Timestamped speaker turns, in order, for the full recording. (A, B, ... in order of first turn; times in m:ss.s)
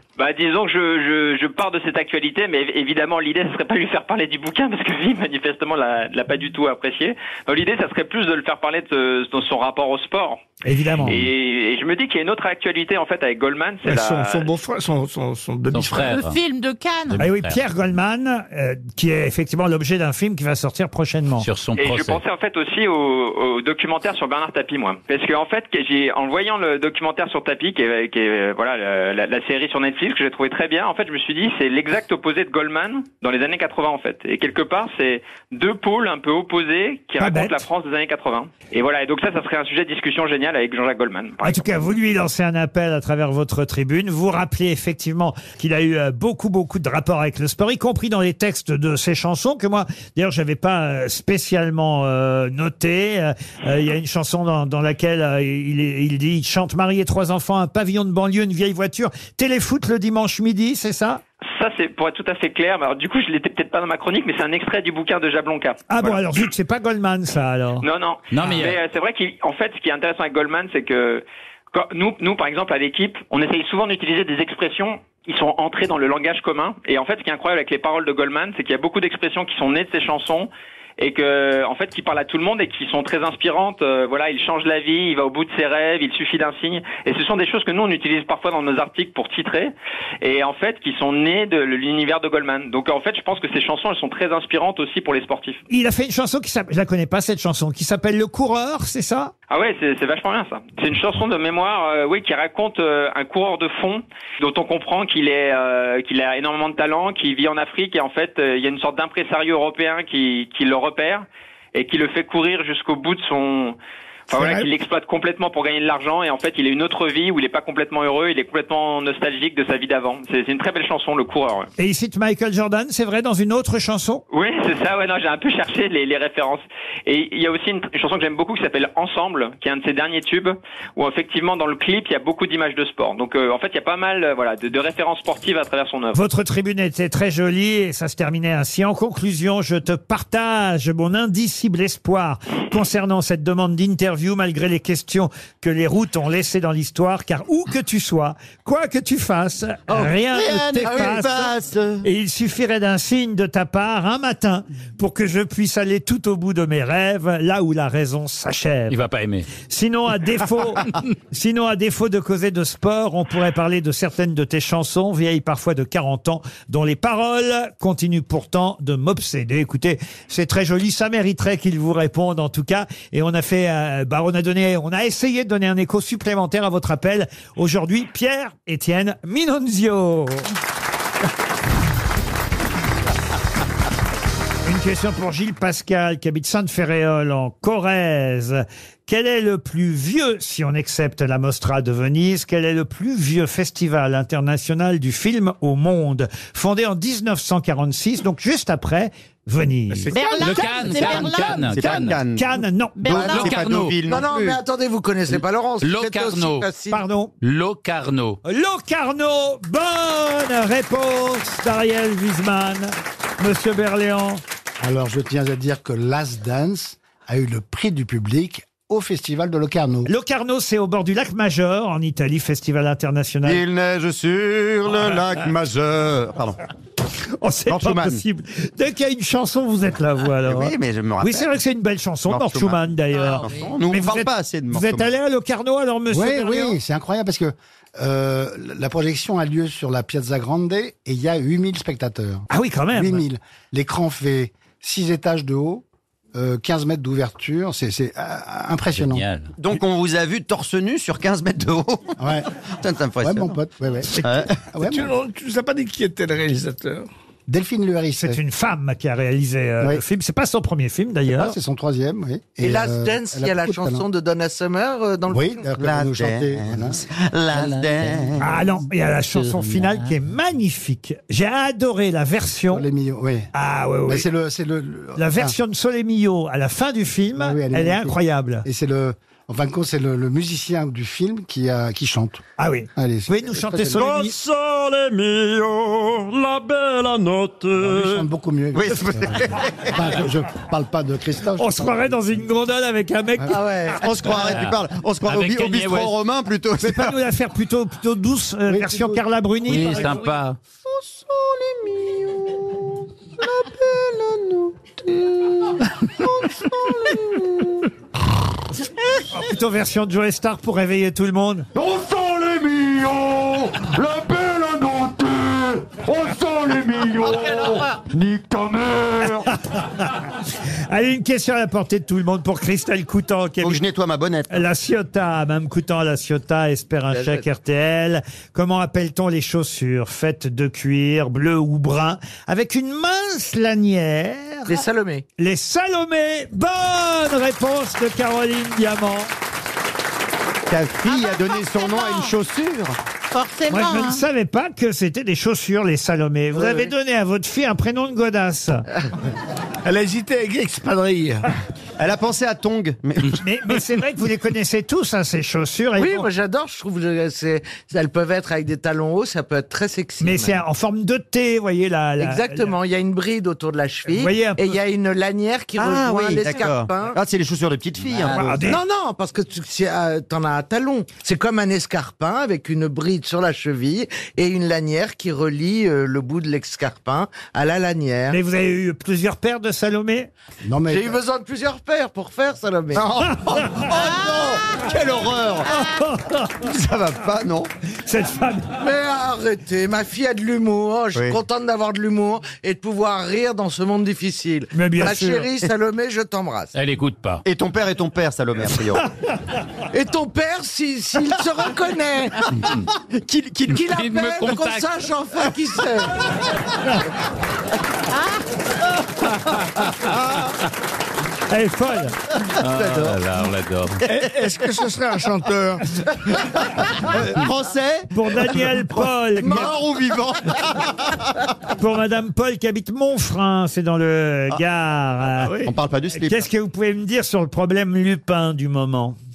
0:00.2-0:10.4 A
0:10.6-0:11.2 B
0:11.0-0:14.5 A
0:13.8-0:16.2 C
0:15.7-0:16.4 D
0:16.1-0:17.2 E
0:17.1-0:17.6 D
0:17.2-0:21.4 B
0:21.4-0:22.2 D
0:21.8-0:41.6 A
0:37.2-0:37.6 B
0:41.4-1:01.2 B
1:01.5-1:06.4 A
1:05.9-1:07.9 B
1:07.8-1:35.6 A
1:08.3-1:08.8 D
1:35.7-1:39.3 B
1:39.5-1:53.8 A
1:54.3-2:01.7 A
1:54.3-1:54.7 C
2:01.8-2:04.2 B
2:04.3-2:16.2 A
2:16.1-2:39.0 B
2:30.3-2:32.0 F
2:30.8-2:31.1 G
2:38.9-2:39.5 D
2:39.7-3:00.5 B
3:04.6-3:20.3 B
3:19.9-3:21.4 C
3:20.1-3:21.7 E
3:20.4-3:22.2 D
3:21.7-3:22.5 F
3:22.3-3:23.1 B
3:23.0-3:23.6 E
3:23.0-3:24.6 F
3:23.3-3:24.0 D
3:24.0-3:27.0 G
3:25.8-3:26.7 D
3:26.9-3:27.3 B
3:27.4-3:28.4 D
3:28.4-3:34.4 B
3:34.8-3:40.1 H
3:40.0-3:43.6 B
3:43.4-3:46.6 F
3:47.4-3:56.8 B
3:47.7-3:48.2 F
3:50.4-3:51.5 F
3:52.3-3:55.1 F
3:53.1-3:53.8 E
3:56.1-4:09.2 H
4:02.5-4:03.2 B
4:08.9-4:09.5 D
4:09.6-4:13.5 F
4:12.2-4:12.5 H
4:13.2-4:15.1 H
4:14.2-4:14.6 F
4:14.8-4:17.1 C
4:17.5-4:18.4 H
4:18.2-4:21.6 B
4:21.3-4:24.1 H
4:22.6-4:25.6 G
4:25.3-4:27.0 H
4:25.7-4:28.6 F
4:27.5-4:28.6 D
4:28.4-4:32.9 B
4:29.3-4:30.1 D
4:32.7-4:33.5 H
4:33.5-4:34.3 B
4:34.1-4:35.5 H
4:35.2-4:38.7 B
4:37.4-4:42.4 H
4:42.6-4:44.3 B
4:43.0-4:44.0 H
4:43.9-4:48.3 I
4:47.8-4:52.1 H
4:48.7-4:50.2 F
4:51.6-4:54.0 B
4:53.5-4:54.0 G
4:54.0-4:57.2 F
4:54.3-4:56.1 D
4:56.8-5:00.1 B
4:58.7-4:59.2 H
4:59.7-5:00.6 D
5:06.9-5:07.2 F
5:09.3-5:11.7 B
5:11.7-5:19.5 I
5:17.4-5:18.0 E
5:19.4-5:20.2 B
5:20.9-5:23.8 B
5:23.6-5:24.6 F
5:24.5-5:34.8 B
5:27.1-5:27.4 G
5:34.7-5:35.2 G
5:35.4-5:39.3 B
5:40.7-5:43.0 F
5:41.0-5:42.3 E
5:43.3-5:44.2 E
5:43.7-5:48.8 B
5:46.5-5:46.9 G
5:49.8-5:51.5 C
5:52.0-5:53.4 F
5:53.4-5:56.3 B
5:56.0-6:00.6 G
6:00.2-6:02.7 B
6:02.2-6:07.2 G
6:04.1-6:04.8 B
6:05.8-6:08.7 F
6:08.2-6:18.4 G
6:08.3-6:08.8 B
6:18.3-6:20.3 B
6:20.6-6:21.2 H
6:20.9-6:23.1 G
6:22.9-6:25.7 F
6:23.2-6:23.9 B
6:24.0-6:24.4 E
6:25.7-6:26.7 B
6:26.6-6:27.7 F
6:28.0-6:28.7 B
6:28.8-6:36.7 G
6:34.7-6:35.5 B
6:36.7-6:37.4 D
6:37.4-6:39.1 F
6:39.9-6:42.5 G
6:42.5-6:42.9 D
6:43.0-6:43.9 F
6:43.7-6:46.2 G
6:43.7-6:45.1 D
6:51.5-6:52.2 B
6:52.5-6:53.2 F
6:52.6-6:54.0 D
6:54.0-6:55.8 C
6:56.8-6:58.6 F
6:58.1-6:59.8 B
6:59.4-7:01.4 F
7:01.7-7:05.5 B
7:05.4-7:05.7 C
7:05.6-7:06.5 F
7:06.2-7:09.1 B